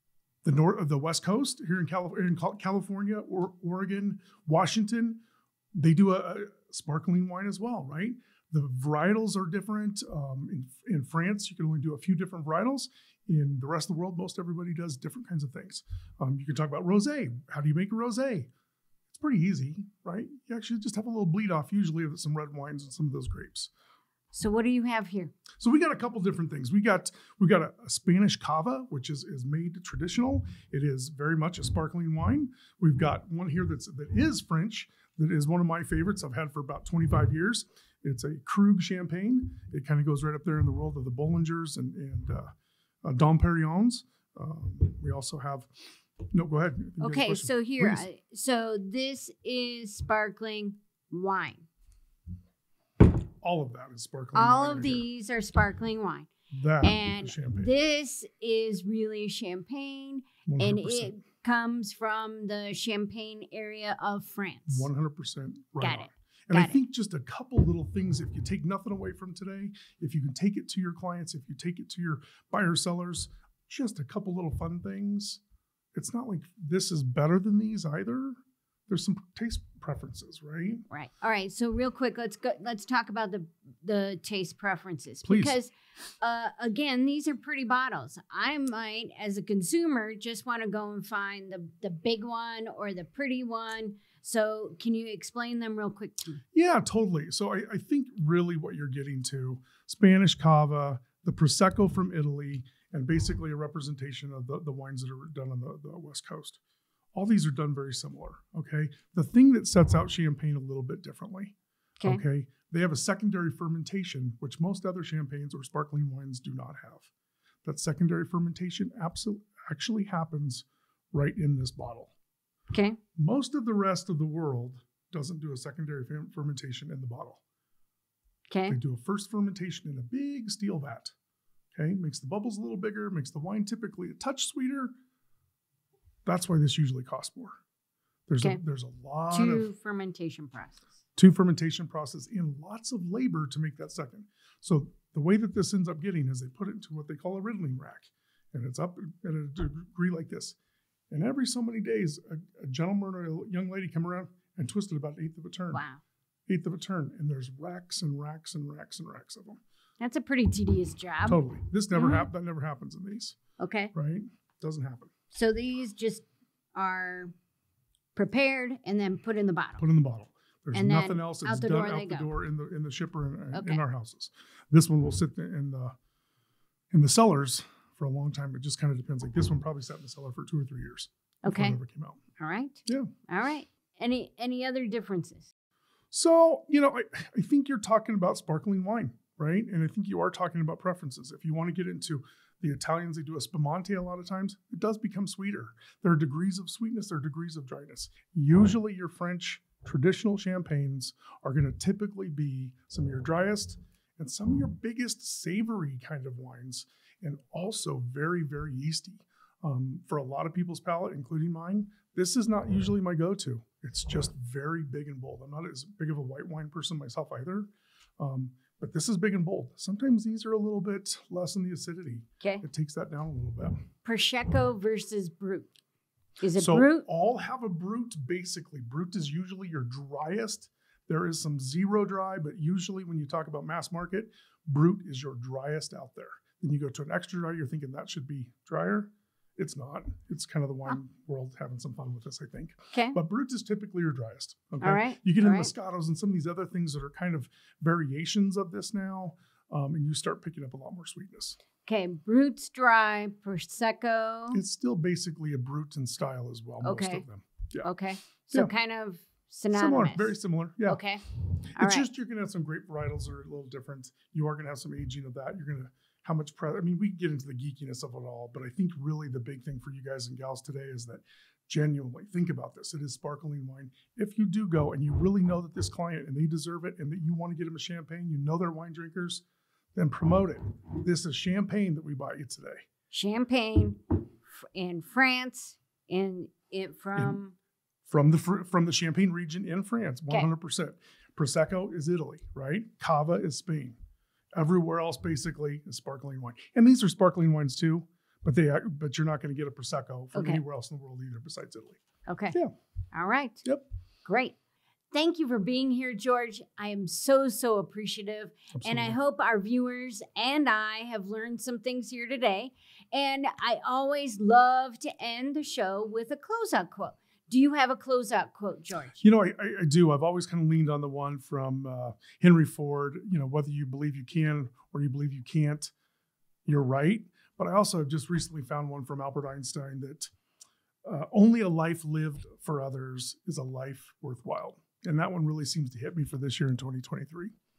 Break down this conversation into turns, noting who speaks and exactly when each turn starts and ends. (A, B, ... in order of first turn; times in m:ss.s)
0:00.4-0:05.2 A
0:05.8-0:18.5 A
0:19.1-0:23.7 A
0:24.3-0:25.3 B
0:25.6-0:42.5 A
0:43.0-0:45.7 A
0:46.3-0:48.1 A
0:47.0-0:51.6 B
0:53.4-0:55.0 A
0:54.3-0:56.3 B
0:56.5-0:57.7 A
0:56.8-1:04.9 B
1:00.4-1:01.1 A
1:04.7-1:15.4 A
1:05.8-1:06.8 B
1:15.9-1:18.4 A
1:18.9-1:20.8 A
1:20.9-1:36.4 B
1:25.2-1:25.6 A
1:36.5-1:46.6 A
1:47.1-1:57.1 A
1:57.6-2:02.1 A
2:02.7-2:03.0 B
2:03.2-2:07.4 A
2:08.5-2:08.8 B
2:08.7-2:11.1 A
2:11.7-2:14.9 A
2:16.2-2:17.6 A
2:18.3-2:19.7 A
2:19.3-2:20.9 B
2:21.2-2:30.6 A
2:31.1-2:35.8 A
2:35.7-2:36.0 B
2:36.5-2:39.6 A
2:40.0-2:41.4 B
2:41.2-2:43.4 A
2:41.9-2:42.3 B
2:43.6-2:43.9 B
2:43.9-2:45.1 A
2:45.3-2:47.3 B
2:48.1-2:49.8 B
2:49.8-2:55.9 A
2:50.7-2:52.3 B
2:53.5-2:53.8 B
2:56.9-3:02.2 A
3:01.4-3:01.8 B
3:02.4-3:05.5 B
3:06.1-3:43.8 A
3:44.0-3:45.7 B
3:46.4-3:47.0 B
3:46.5-4:11.6 A
4:04.8-4:05.7 B
4:11.8-4:14.6 B
4:14.5-4:17.9 A
4:16.8-4:17.2 B
4:17.8-4:21.2 B
4:19.7-4:21.0 A
4:21.7-4:22.1 B
4:21.8-4:39.4 A
4:39.9-4:42.8 A
4:43.1-4:47.5 B
4:48.1-4:54.0 A
4:54.5-5:02.0 A
5:00.3-5:00.6 B
5:02.3-5:02.6 B
5:03.1-5:03.6 B
5:04.2-5:04.6 B
5:05.1-5:19.2 B
5:08.7-5:09.2 A
5:19.2-5:25.9 A
5:26.6-5:30.3 A
5:31.0-5:37.5 A